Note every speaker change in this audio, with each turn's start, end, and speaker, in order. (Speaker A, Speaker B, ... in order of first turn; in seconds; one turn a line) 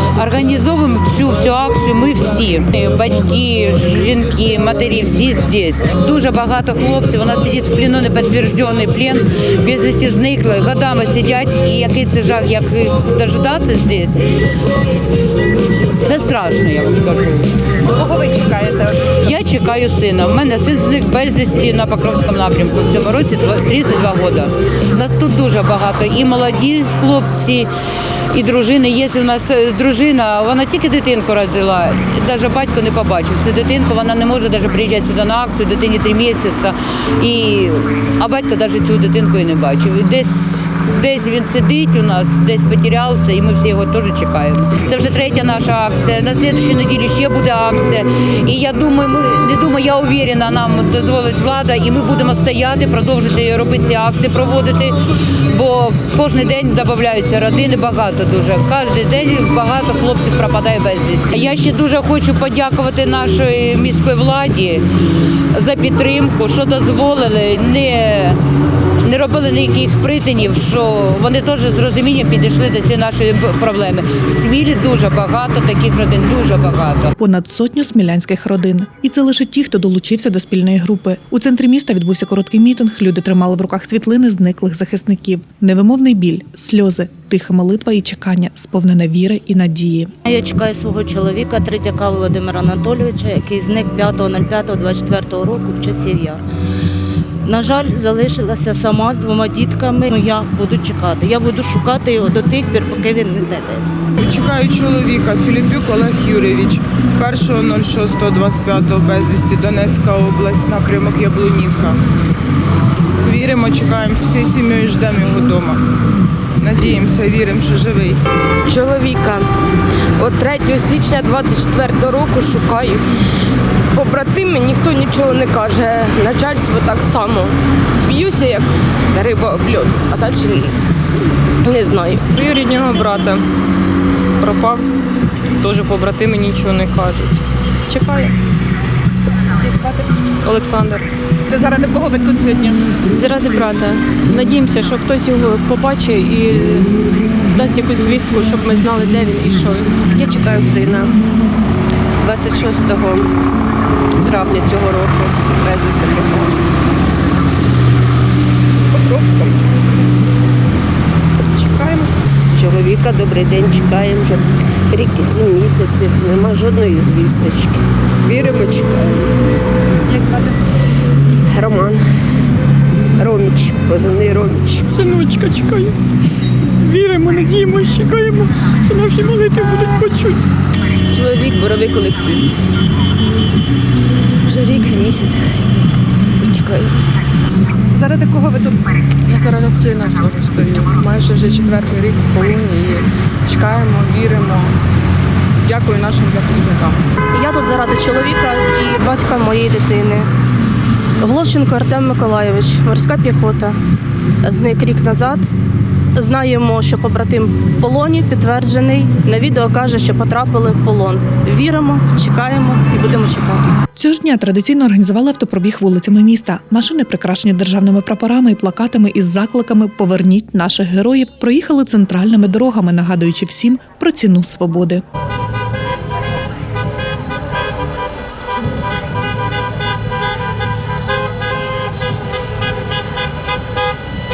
Speaker A: 0.1-14.2
Speaker A: 16.0-17.6
Speaker B: 18.0-19.0
Speaker A: 19.0-27.7
Speaker A: 28.3-64.8
Speaker A: 65.5-68.4
Speaker A: 69.0-77.1
Speaker C: 77.2-90.1
Speaker D: 90.2-96.4
Speaker D: 97.4-104.0
Speaker E: 104.2-112.0
Speaker E: 113.2-115.8
Speaker E: 116.6-118.2
Speaker F: 118.7-119.5
Speaker F: 120.2-123.0
Speaker F: 124.0-127.5
Speaker F: 128.0-130.8
Speaker F: 131.6-132.2
Speaker G: 132.3-133.4
Speaker G: 134.4-134.8
Speaker G: 135.6-138.3
Speaker B: 139.7-140.0
Speaker G: 140.4-141.1
Speaker B: 141.5-142.8
Speaker G: 143.1-146.9
Speaker G: 147.5-149.9
Speaker H: 161.6-161.9
Speaker H: 162.5-169.3
Speaker B: 170.1-170.6
Speaker H: 171.4-172.1
Speaker H: 173.2-174.8
Speaker G: 174.8-175.9
Speaker G: 176.8-180.4
Speaker F: 181.1-182.4
Speaker F: 184.5-185.8
Speaker F: 186.4-186.9
Speaker B: 187.9-188.9
Speaker I: 189.2-194.7
Speaker I: 195.7-197.0
Speaker J: 197.3-200.3
Speaker J: 201.2-203.8
Speaker J: 204.4-205.5
Speaker J: 206.1-213.6
Speaker C: 213.9-225.0